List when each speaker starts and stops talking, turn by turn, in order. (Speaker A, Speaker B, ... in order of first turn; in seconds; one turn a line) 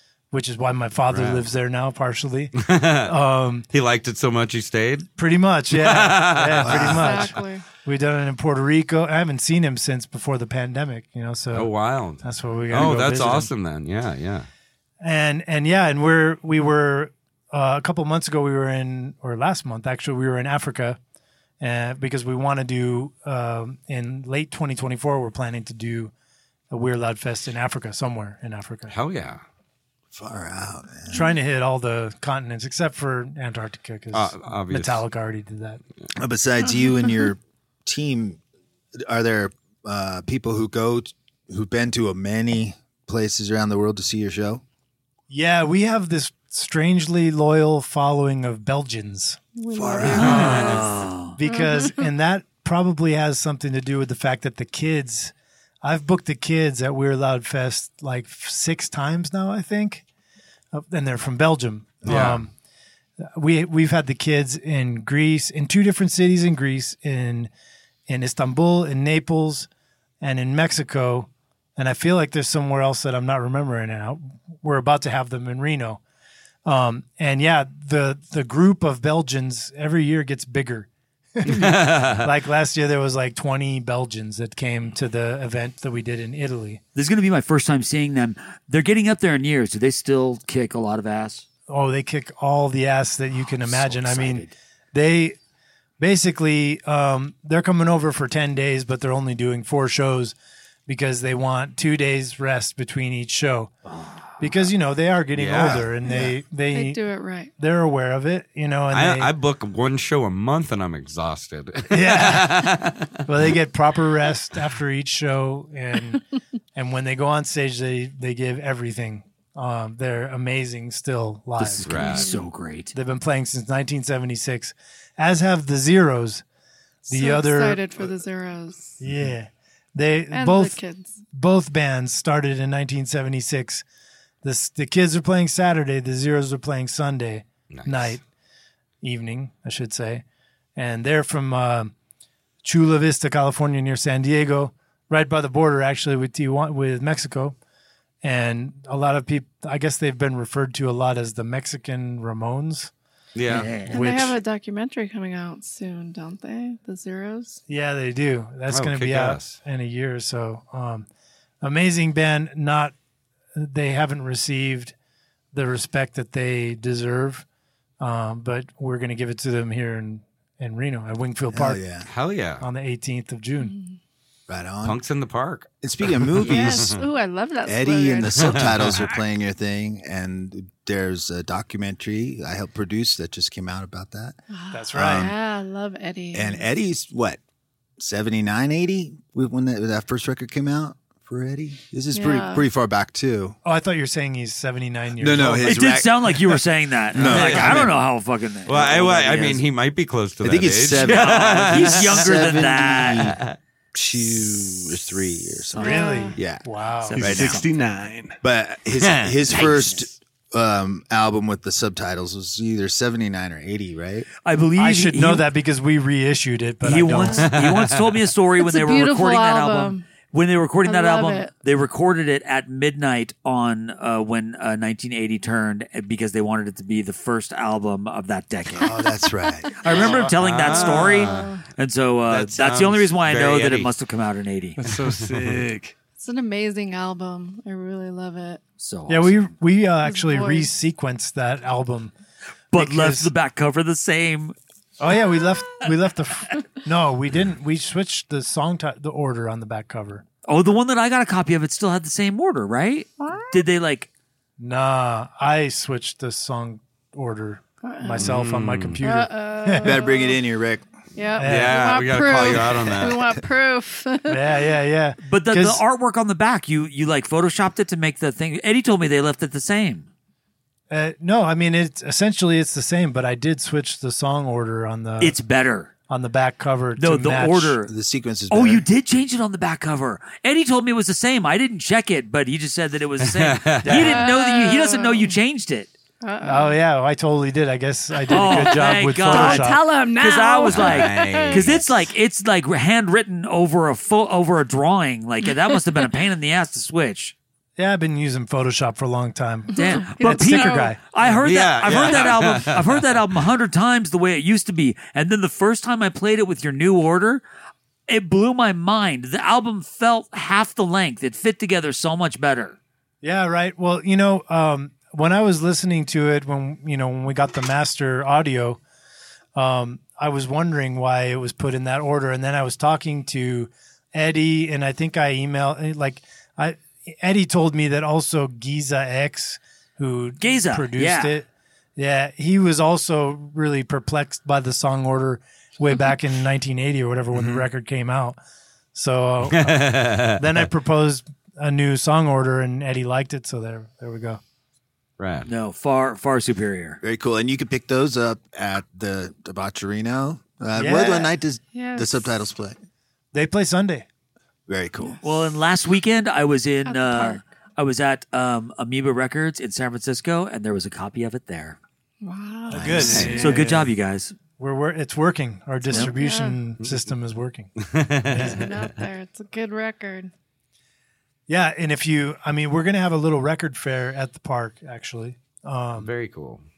Speaker A: 0.3-3.7
Speaker B: 1.1-1.5
Speaker B: 2.6-3.1
Speaker B: 3.7-5.1
Speaker A: 5.2-11.7
Speaker B: 5.7-7.4
Speaker C: 6.9-7.7
Speaker B: 11.5-14.5
Speaker A: 12.2-13.5
Speaker A: 15.0-21.0
Speaker A: 21.6-26.1
Speaker A: 26.7-28.9
Speaker B: 28.9-29.4
Speaker D: 30.1-31.2
Speaker A: 31.1-35.8
Speaker B: 34.1-35.0
Speaker D: 36.2-38.4
Speaker C: 36.8-37.1
Speaker D: 39.0-44.6
Speaker A: 45.3-49.4
Speaker C: 49.5-50.9
Speaker D: 49.7-50.6
Speaker A: 50.0-50.8
Speaker E: 50.2-51.4
Speaker A: 51.3-60.0
Speaker C: 51.4-52.0
Speaker A: 60.7-62.5
Speaker D: 62.0-62.4
Speaker A: 63.4-67.5
Speaker A: 68.1-69.7
Speaker A: 70.2-76.0
Speaker A: 76.7-86.8
Speaker B: 81.5-82.3
Speaker E: 87.0-91.5
Speaker A: 91.7-95.4
Speaker D: 93.6-94.5
Speaker A: 96.0-100.3
Speaker A: 100.9-103.7
Speaker A: 104.4-107.0
Speaker B: 105.3-105.9
Speaker D: 105.6-106.3
Speaker C: 106.7-107.5
Speaker A: 107.6-109.3
Speaker B: 108.9-113.2
Speaker A: 111.9-116.2
Speaker A: 116.8-121.9
Speaker E: 121.6-122.9
Speaker B: 121.8-122.4
Speaker C: 122.0-122.4
Speaker A: 122.9-126.4
Speaker C: 127.0-129.0
Speaker A: 127.1-128.1
Speaker A: 129.0-130.8
Speaker C: 130.3-131.2
Speaker A: 131.3-133.8
Speaker A: 134.4-138.2
Speaker B: 137.7-138.2
Speaker A: 139.0-140.2
Speaker A: 140.8-141.9
Speaker A: 142.6-147.6
Speaker A: 148.2-152.9
Speaker B: 153.4-153.7
Speaker E: 153.5-154.0
Speaker C: 153.8-157.6
Speaker A: 153.9-154.4
Speaker A: 157.7-161.1
Speaker B: 158.7-159.6
Speaker A: 161.6-162.9
Speaker A: 163.6-164.9
Speaker A: 165.5-167.5
Speaker A: 168.0-171.8
Speaker D: 171.5-172.1
Speaker B: 172.1-172.6
Speaker A: 172.6-173.8
Speaker C: 173.6-174.0
Speaker D: 174.5-175.0
Speaker B: 174.8-175.7
Speaker D: 175.8-176.9
Speaker B: 176.3-177.0
Speaker C: 176.4-179.1
Speaker D: 177.7-184.4
Speaker B: 178.4-178.9
Speaker C: 184.5-186.7
Speaker A: 184.7-185.3
Speaker D: 184.9-185.4
Speaker D: 186.3-187.4
Speaker D: 188.0-193.6
Speaker C: 192.1-192.7
Speaker A: 193.7-195.8
Speaker D: 195.2-198.0
Speaker E: 195.6-199.6
Speaker B: 197.2-197.9
Speaker B: 198.7-202.7
Speaker D: 200.4-203.4
Speaker E: 201.0-203.4
Speaker B: 203.2-203.6
Speaker D: 203.9-206.7
Speaker C: 205.8-206.4
Speaker A: 205.8-207.2
Speaker E: 207.0-207.8
Speaker F: 207.2-208.4
Speaker D: 207.2-207.6
Speaker D: 208.4-214.3
Speaker B: 209.0-209.8
Speaker E: 209.3-210.1
Speaker E: 214.4-215.5
Speaker A: 214.8-217.5
Speaker E: 216.8-228.9
Speaker C: 217.2-217.5
Speaker B: 217.5-218.1
Speaker C: 218.6-220.1
Speaker C: 220.8-221.6
Speaker D: 228.8-229.7
Speaker C: 229.8-231.7
Speaker E: 229.8-234.8
Speaker B: 229.9-231.6
Speaker B: 232.3-233.9
Speaker F: 234.8-235.9
Speaker C: 236.2-238.6
Speaker E: 238.8-239.5
Speaker A: 239.1-242.1
Speaker C: 240.0-240.7
Speaker E: 242.7-244.6
Speaker A: 242.7-243.3
Speaker A: 245.0-250.2
Speaker E: 250.5-254.1
Speaker C: 253.2-253.7
Speaker A: 254.6-260.0
Speaker C: 257.8-258.3
Speaker B: 258.2-259.0
Speaker C: 259.0-260.4
Speaker D: 259.8-260.9
Speaker C: 261.2-264.6
Speaker A: 261.4-261.9
Speaker B: 261.4-263.4
Speaker A: 264.3-265.8
Speaker E: 265.2-270.1
Speaker A: 270.9-275.4
Speaker E: 275.2-275.9
Speaker A: 276.1-277.8
Speaker E: 277.0-277.9
Speaker D: 277.9-278.9
Speaker E: 278.5-285.9
Speaker B: 283.2-284.0
Speaker A: 283.8-284.3
Speaker C: 283.9-285.4
Speaker C: 286.2-286.8
Speaker A: 286.4-289.8
Speaker E: 288.3-297.4
Speaker C: 288.3-292.1
Speaker B: 290.7-291.9
Speaker C: 295.5-295.8
Speaker A: 297.8-301.0
Speaker C: 299.7-301.0
Speaker E: 299.8-307.4
Speaker B: 301.2-303.2
Speaker E: 308.1-312.8
Speaker A: 313.2-318.8
Speaker A: 319.6-338.4
Speaker E: 330.4-331.4
Speaker D: 337.3-337.6
Speaker A: 338.9-344.4
Speaker B: 339.5-340.4
Speaker B: 345.2-345.5
Speaker E: 345.5-347.0
Speaker D: 347.0-352.8
Speaker A: 350.8-351.3
Speaker C: 351.7-352.3
Speaker A: 353.3-354.1
Speaker D: 354.7-355.2
Speaker E: 355.2-361.8
Speaker C: 356.9-357.4
Speaker C: 362.2-363.5
Speaker D: 362.7-363.3
Speaker A: 362.7-363.9
Speaker B: 363.0-363.4
Speaker E: 363.3-364.3
Speaker A: 364.6-367.7
Speaker C: 365.9-366.6
Speaker B: 367.8-368.9
Speaker A: 368.3-368.7
Speaker C: 368.3-370.3
Speaker A: 371.5-376.1
Speaker B: 376.0-376.6